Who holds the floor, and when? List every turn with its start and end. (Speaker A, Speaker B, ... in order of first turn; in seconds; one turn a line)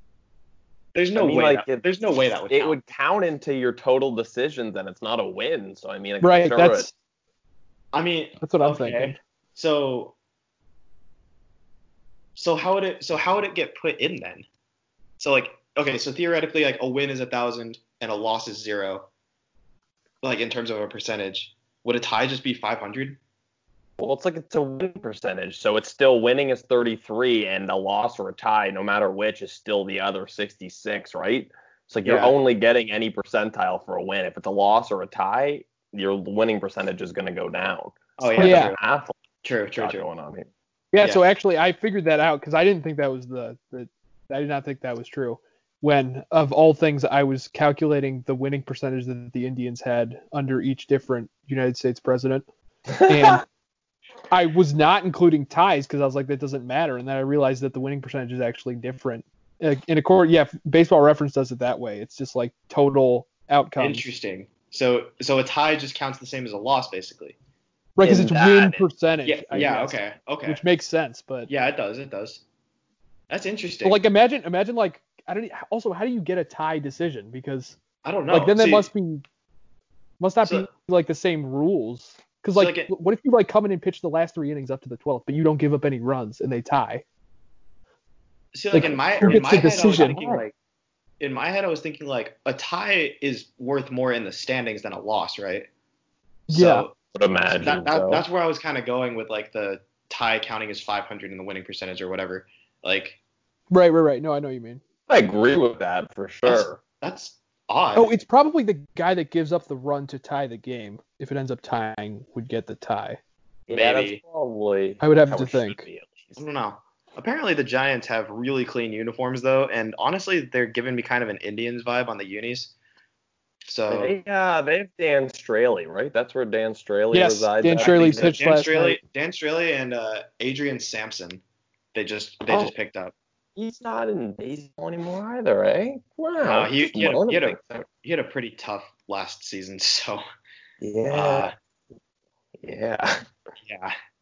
Speaker A: 0.9-2.8
Speaker B: 1.1-1.9
Speaker B: 2.5-6.9
Speaker C: 6.2-6.9
Speaker A: 7.9-10.1
Speaker C: 8.4-9.2
Speaker A: 12.3-14.4
Speaker A: 15.2-19.1
Speaker A: 20.2-23.2
Speaker B: 24.0-39.2
Speaker A: 32.0-32.3
Speaker A: 38.2-38.8
Speaker C: 38.4-38.7
Speaker A: 39.4-40.0
Speaker B: 39.8-40.5
Speaker C: 40.9-52.5
Speaker A: 41.0-41.3
Speaker B: 52.9-53.4
Speaker C: 53.0-53.4
Speaker C: 54.3-64.0
Speaker A: 63.8-67.3
Speaker C: 68.0-71.5
Speaker B: 68.0-68.8
Speaker A: 68.1-70.6
Speaker A: 71.5-72.4
Speaker A: 73.3-74.0
Speaker C: 73.8-77.8
Speaker A: 78.0-78.9
Speaker C: 78.3-79.2
Speaker C: 80.2-87.0
Speaker A: 80.4-80.7
Speaker A: 82.5-82.9
Speaker A: 88.5-90.5
Speaker C: 88.7-90.4
Speaker B: 88.8-89.5
Speaker A: 91.2-95.7
Speaker A: 96.5-96.9
Speaker C: 96.5-96.9
Speaker B: 97.1-98.2
Speaker A: 97.6-103.2
Speaker C: 103.7-104.8
Speaker B: 105.1-106.8
Speaker A: 106.4-108.2
Speaker C: 107.9-113.2
Speaker B: 113.7-116.4
Speaker A: 113.7-114.2
Speaker C: 115.0-115.8
Speaker A: 116.4-122.7
Speaker A: 123.6-124.2
Speaker B: 123.9-128.4
Speaker C: 127.1-129.0
Speaker A: 127.8-131.4
Speaker A: 131.9-133.1
Speaker B: 133.6-137.9
Speaker A: 136.4-140.2
Speaker B: 140.8-141.5
Speaker A: 141.1-141.5
Speaker B: 142.6-143.2
Speaker A: 143.6-143.9